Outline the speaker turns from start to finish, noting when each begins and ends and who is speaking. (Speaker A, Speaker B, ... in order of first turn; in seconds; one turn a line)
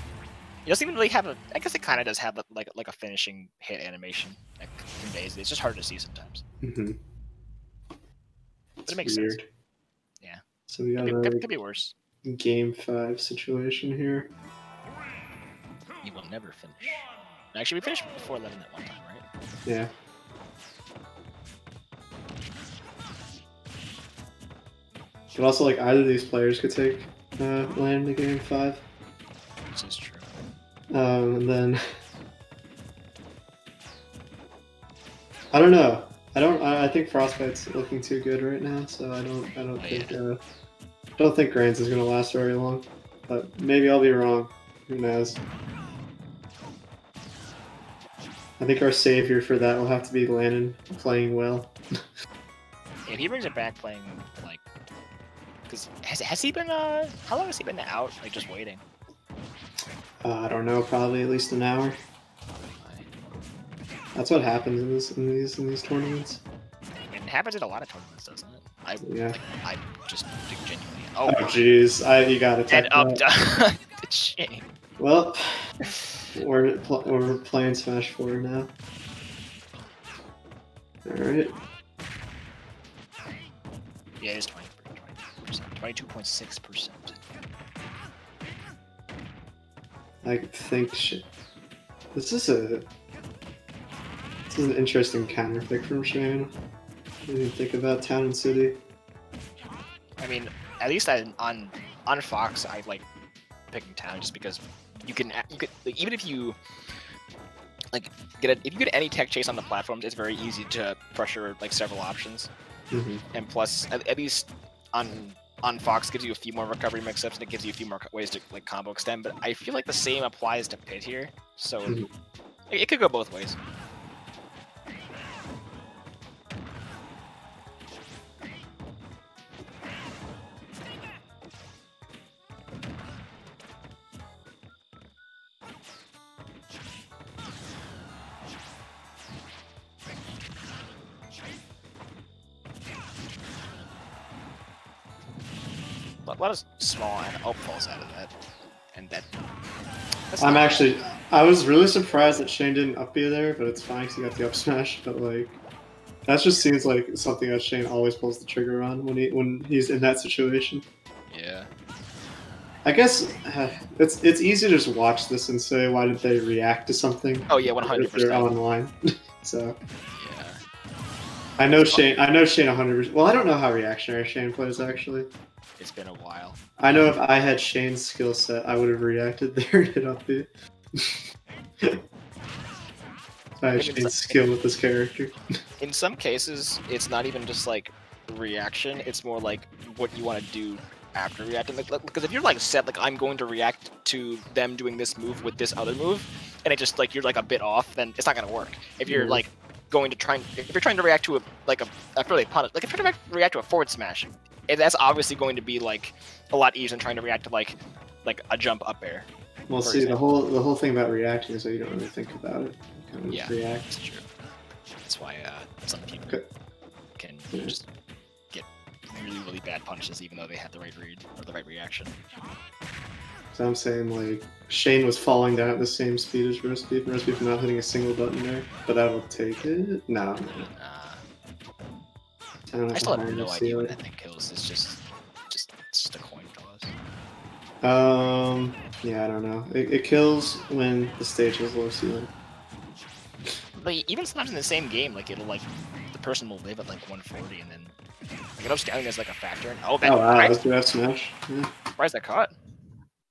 Speaker A: 0.6-6.4
Speaker B: 6.6-7.0
Speaker B: 8.8-9.5
Speaker A: 8.8-9.4
Speaker B: 10.7-11.5
Speaker A: 11.0-11.9
Speaker B: 12.2-14.3
Speaker A: 16.0-19.2
Speaker B: 19.6-19.9
Speaker B: 25.3-28.8
Speaker A: 29.7-30.3
Speaker B: 30.9-31.8
Speaker B: 35.5-40.4
Speaker A: 39.8-40.2
Speaker B: 41.2-45.4
Speaker B: 48.6-51.8
Speaker A: 53.0-54.6
Speaker A: 55.7-58.8
Speaker B: 60.2-62.0
Speaker A: 62.7-63.1
Speaker B: 64.1-66.4
Speaker A: 67.1-71.6
Speaker B: 69.0-69.4
Speaker B: 71.2-73.2
Speaker A: 72.7-74.7
Speaker B: 75.0-75.6
Speaker B: 76.3-78.7
Speaker B: 81.0-81.5
Speaker A: 84.2-87.2
Speaker B: 90.2-91.2
Speaker B: 92.1-92.9
Speaker B: 94.5-96.5
Speaker B: 97.2-98.8
Speaker A: 100.2-103.0
Speaker A: 103.7-106.6
Speaker A: 107.9-112.5
Speaker B: 112.9-113.2
Speaker A: 113.3-122.0
Speaker A: 122.7-123.6
Speaker A: 146.2-148.3
Speaker A: 148.9-149.3
Speaker A: 150.3-150.9
Speaker B: 150.4-155.6
Speaker B: 156.2-160.8
Speaker A: 161.3-161.7
Speaker B: 162.8-169.8
Speaker A: 167.5-168.5
Speaker A: 170.1-170.6
Speaker B: 171.6-175.3
Speaker A: 171.8-172.1
Speaker A: 175.8-176.6
Speaker B: 176.8-181.2
Speaker B: 183.6-185.4
Speaker A: 183.7-184.4
Speaker A: 185.8-209.3
Speaker B: 199.1-199.4
Speaker B: 209.7-213.9
Speaker A: 209.8-210.2
Speaker A: 213.3-214.2
Speaker A: 215.0-216.3
Speaker A: 217.2-217.9
Speaker A: 218.5-222.2
Speaker B: 223.5-230.7
Speaker A: 230.5-231.2
Speaker B: 232.7-233.9
Speaker A: 232.9-236.9
Speaker B: 237.8-242.3
Speaker A: 243.8-247.9
Speaker A: 248.6-250.6
Speaker B: 250.0-251.7
Speaker A: 252.0-252.5